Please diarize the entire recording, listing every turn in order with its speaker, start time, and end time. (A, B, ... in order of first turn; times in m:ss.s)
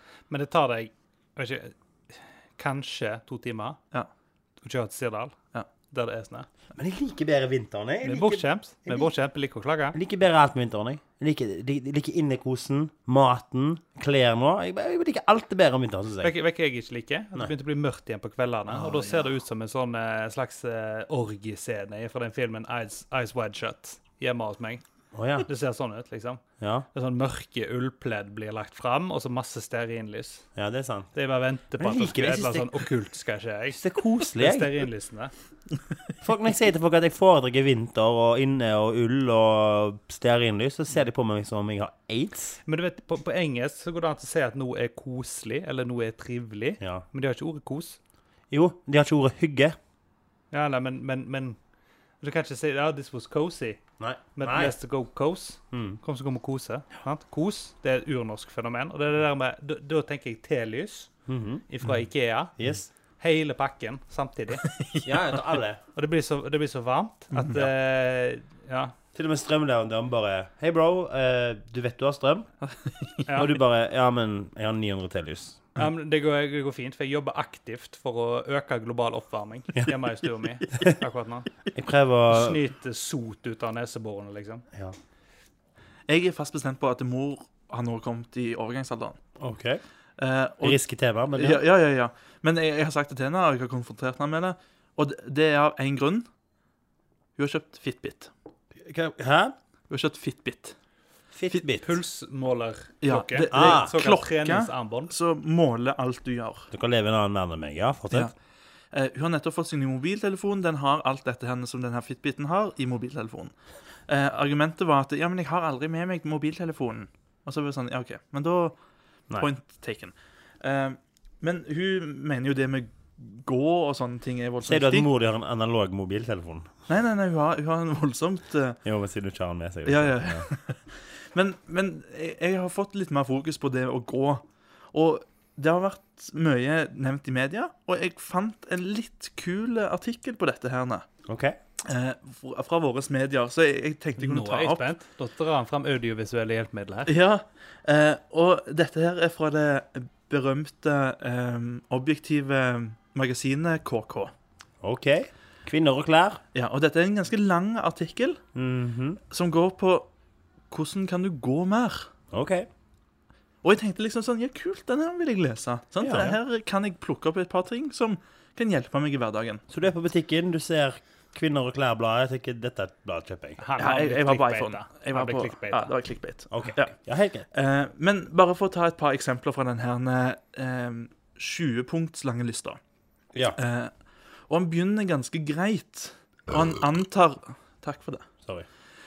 0:00.3-0:03.8 A
0:04.6-0:05.4 A
0:05.9-0:06.5 A
0:06.8-0:08.4 B
0:08.0-0:10.0 A
0:09.9-0:16.3 B
0:16.2-0:24.8 A
0:18.7-0:19.2 C
0:25.1-0:25.5 B
0:25.5-0:30.4 A
0:26.6-0:26.9 B
0:30.6-0:31.1 B
0:31.1-0:35.3 A
0:31.8-0:32.8 B
0:33.7-0:34.7 B
0:36.2-0:42.6 B
0:42.7-0:48.0 A
0:48.5-0:49.8 B
0:50.5-0:51.6 A
0:52.2-0:53.8 A
0:54.0-0:54.8 B
0:54.4-1:01.1 A
0:55.7-0:56.0 B
1:01.3-1:01.7 B
1:01.7-1:04.6 A
1:02.6-1:02.8 B
1:04.6-1:05.1 C
1:05.0-1:05.8 B
1:06.0-1:09.0 A
1:09.1-1:12.5 B
1:12.6-1:13.2 C
1:13.3-1:13.5 A
1:13.3-1:15.7 B
1:15.8-1:21.5 A
1:21.7-1:22.6 B
1:22.3-1:24.7 A
1:26.1-1:29.2 C
1:29.4-1:29.8 B
1:30.2-1:30.8 C
1:30.6-1:31.6 B
1:31.3-1:36.2 C
1:37.4-1:38.3 C
1:38.8-1:39.6 B
1:39.9-1:40.8 C
1:41.3-1:42.0 B
1:41.8-1:45.1 A
1:43.0-1:46.7 C
1:43.5-1:43.9 B
1:46.7-1:48.3 B
1:48.9-1:53.5 C
1:54.1-1:58.8 C
1:59.3-2:05.1 C
2:04.6-2:06.7 B
2:06.9-2:08.8 C
2:08.8-2:10.5 B
2:09.9-2:21.1 C
2:21.3-2:21.6 B
2:21.8-2:24.9 C
2:24.2-2:27.1 A
2:27.1-2:34.3 C
2:34.8-2:36.4 B
2:36.5-2:38.4 C
2:38.6-2:39.2 B
2:39.3-2:40.1 C
2:40.7-2:42.1 C
2:42.3-2:42.7 B
2:43.6-2:49.6 C
2:46.0-2:46.4 A
2:49.7-2:53.6 B
2:53.6-2:55.9 A
2:53.8-3:02.8 C
2:56.5-2:57.5 B
3:03.6-3:03.9 C
3:04.5-3:08.3 C